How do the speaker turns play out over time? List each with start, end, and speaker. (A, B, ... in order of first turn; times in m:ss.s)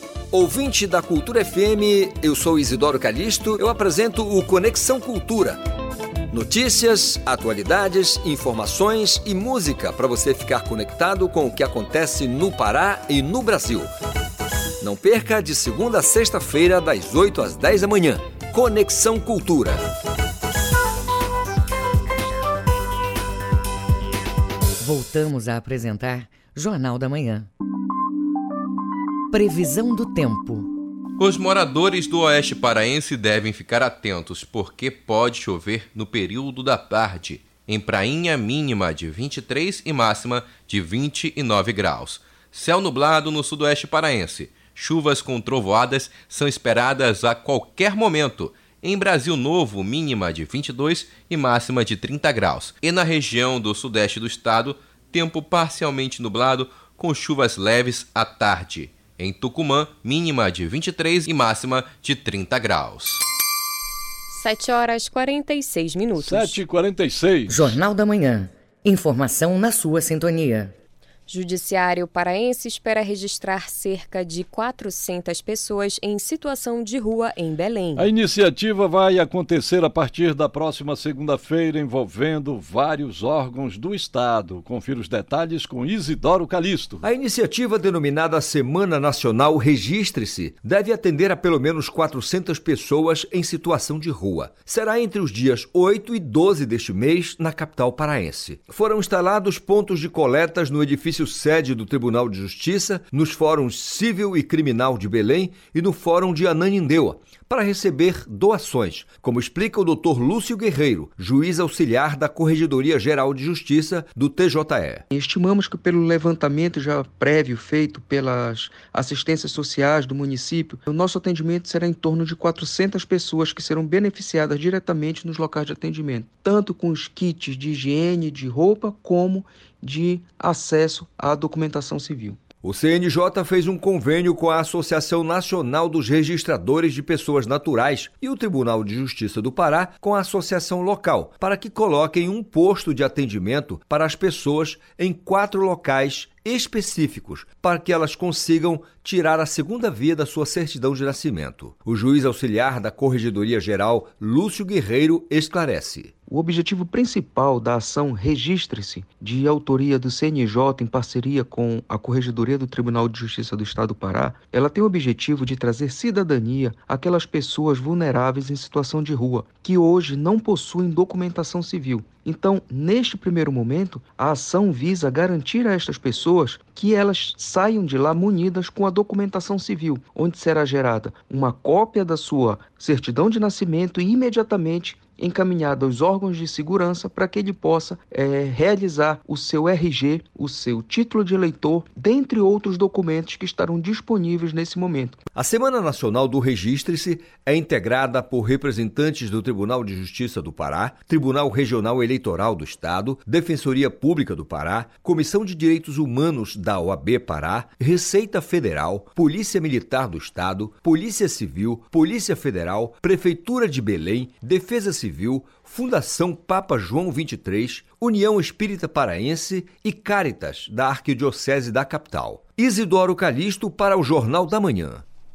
0:00.3-0:05.6 A
0:06.3-0:13.9 A
0:14.8-0:19.9 A
0:24.8-0:27.5 B
0:29.3-0:30.7 B
0:31.2-1:03.2 C
1:04.3-1:06.6 D
1:06.2-1:07.7 E
1:07.5-1:10.7 B
1:11.3-1:18.1 D
1:18.0-1:27.0 E
1:27.0-1:55.0 A
1:55.1-2:12.4 F
2:12.6-2:36.2 A
2:36.3-3:15.1 F
3:15.3-3:45.0 A